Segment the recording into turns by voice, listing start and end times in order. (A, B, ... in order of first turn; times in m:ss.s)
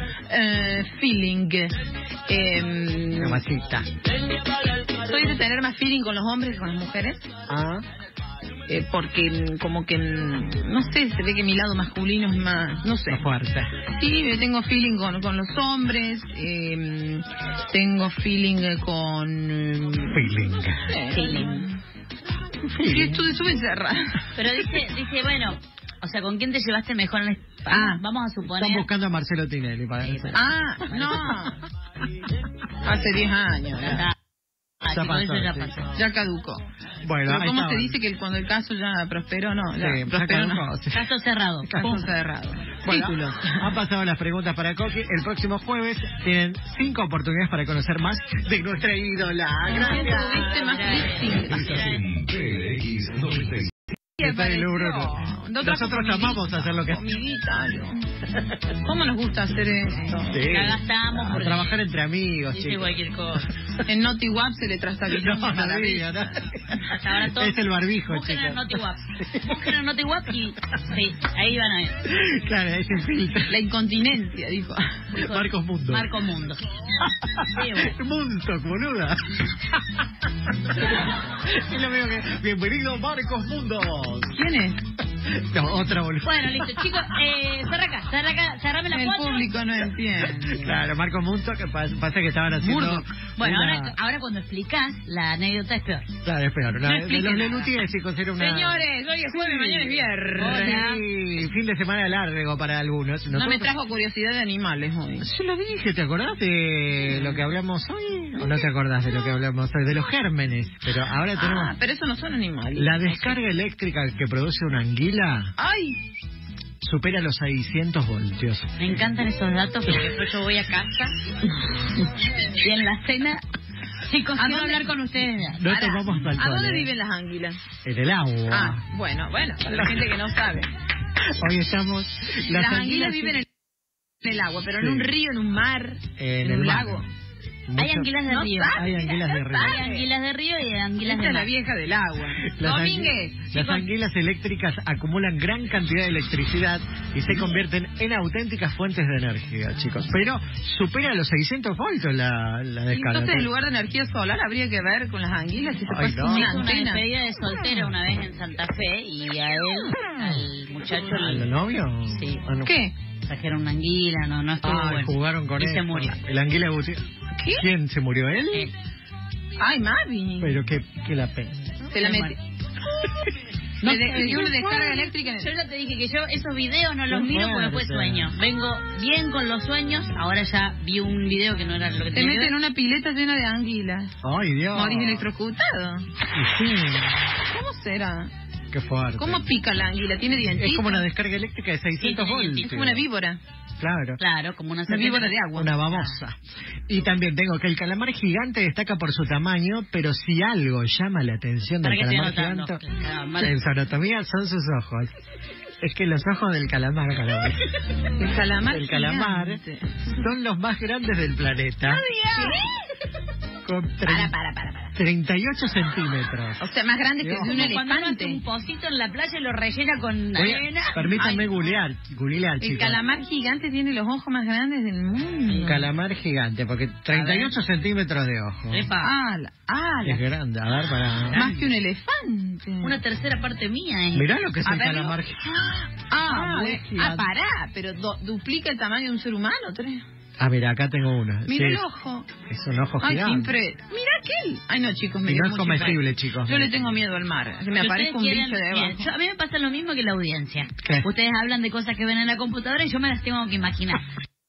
0:00.3-0:03.4 A
0:03.2-0:03.9 B
0:05.0-0:07.3 A
0:07.5-0:07.8 B
0:08.7-0:13.2 A
0:13.1-0:13.7 B
0:13.9-0:21.8 A
0:20.1-0:20.9 B
0:21.1-0:21.6 C
0:22.7-0:23.4 B
0:22.8-0:24.3 A
0:24.3-0:28.9 C
0:27.7-0:28.0 A
0:28.6-0:30.4 B
0:30.0-0:31.3 C
0:30.3-0:31.6 A
0:32.8-0:34.1 A
0:33.8-0:34.1 C
0:34.8-0:35.9 C
0:34.8-0:35.7 B
0:35.9-0:36.6 A
0:37.0-0:38.0 B
0:37.2-0:40.6 A
0:39.8-0:41.0 B
0:40.9-0:42.0 C
0:41.6-0:42.0 B
0:41.8-0:43.7 A
0:42.8-0:50.6 B
0:49.6-0:51.9 A
0:49.7-0:52.1 C
0:51.5-0:53.7 D
0:54.2-0:58.0 A
0:54.2-0:57.0 B
0:58.8-1:00.7 A
1:00.2-1:02.9 B
1:00.5-1:01.7 C
1:02.5-1:03.5 C
1:03.8-1:06.2 A
1:05.1-1:09.6 B
1:06.8-1:12.0 C
1:12.0-1:13.5 B
1:13.5-1:15.0 A
1:15.1-1:16.6 C
1:15.1-1:16.1 B
1:17.0-1:24.3 B
1:17.4-1:17.9 C
1:24.3-1:24.8 A
1:25.3-1:27.1 B
1:26.2-1:29.6 C
1:28.9-1:30.8 A
1:30.4-1:34.0 B
1:32.6-1:36.1 C
1:32.6-1:33.0 A
1:36.2-1:38.8 B
1:36.8-1:37.7 A
1:38.4-1:40.9 A
1:39.3-1:41.0 C
1:40.4-1:43.7 B
1:43.3-1:45.3 A
1:45.2-1:51.7 B
1:47.1-1:47.4 C
1:51.3-1:53.4 A
1:52.8-1:55.5 B
1:55.6-1:56.0 A
1:56.8-1:58.7 B
1:58.8-2:01.2 C
2:02.4-2:03.4 C
2:04.0-2:05.6 C
2:04.3-2:04.9 A
2:05.6-2:06.9 B
2:05.6-2:07.6 A
2:07.8-2:08.8 B
2:08.5-2:10.7 A
2:09.7-2:10.0 B
2:11.3-2:13.4 B
2:12.4-2:13.5 A
2:14.2-2:17.1 A
2:14.8-2:15.1 B
2:16.2-2:17.0 B
2:17.7-2:18.1 B
2:17.8-2:18.8 C
2:18.2-2:20.1 A
2:18.6-2:19.8 B
2:19.6-2:21.5 C
2:21.0-2:23.5 A
2:22.4-2:33.5 B
2:23.5-2:23.8 C
2:32.9-2:37.0 A
2:35.9-2:36.6 B
2:36.2-2:41.5 C
2:41.0-2:42.7 B
2:42.1-2:42.4 C
2:42.6-2:42.9 A
2:43.2-2:46.2 C
2:44.6-2:48.7 B
2:47.3-2:47.6 A
2:49.6-2:50.7 A
2:50.4-2:51.8 B
2:51.9-2:52.3 A
2:52.0-2:52.3 C
2:53.8-2:54.9 B
2:53.8-2:55.5 A
2:53.9-3:02.5 C
2:57.1-2:58.3 B
3:02.1-3:04.1 A
3:04.2-3:05.3 B
3:04.7-3:06.0 A
3:06.3-3:07.3 B
3:07.4-3:08.3 A
3:08.7-3:09.4 B
3:09.2-3:11.1 A
3:10.6-3:13.0 B
3:12.0-3:12.9 C
3:12.6-3:13.4 A
3:13.8-3:14.2 B
3:14.2-3:16.2 C
3:14.9-3:15.8 A
3:15.6-3:22.8 B
3:21.8-3:23.6 C
3:23.4-3:25.1 B
3:25.8-3:27.6 B
3:28.1-3:30.2 A
3:28.7-3:32.0 B
3:31.8-3:32.8 A
3:33.6-3:34.3 B
3:34.0-3:34.9 A
3:35.0-3:36.6 B
3:36.6-3:38.4 A
3:37.2-3:37.6 B
3:37.4-3:41.5 C
3:40.3-3:43.0 B
3:42.6-3:45.8 A
3:45.5-3:45.8 C
3:45.6-3:48.9 B
3:47.1-3:47.5 A
3:48.7-3:49.1 C
3:49.0-3:50.2 A
3:50.0-3:51.5 B
3:51.3-3:53.0 A
3:52.8-3:54.3 C
3:54.1-3:55.4 B
3:54.6-4:00.0 A
3:56.2-3:57.3 B
4:00.4-4:01.8 B
4:01.4-4:02.3 A
4:02.5-4:03.5 B
4:03.0-4:09.0 A
4:05.2-4:06.8 B
4:07.8-4:14.0 C
4:10.8-4:11.1 B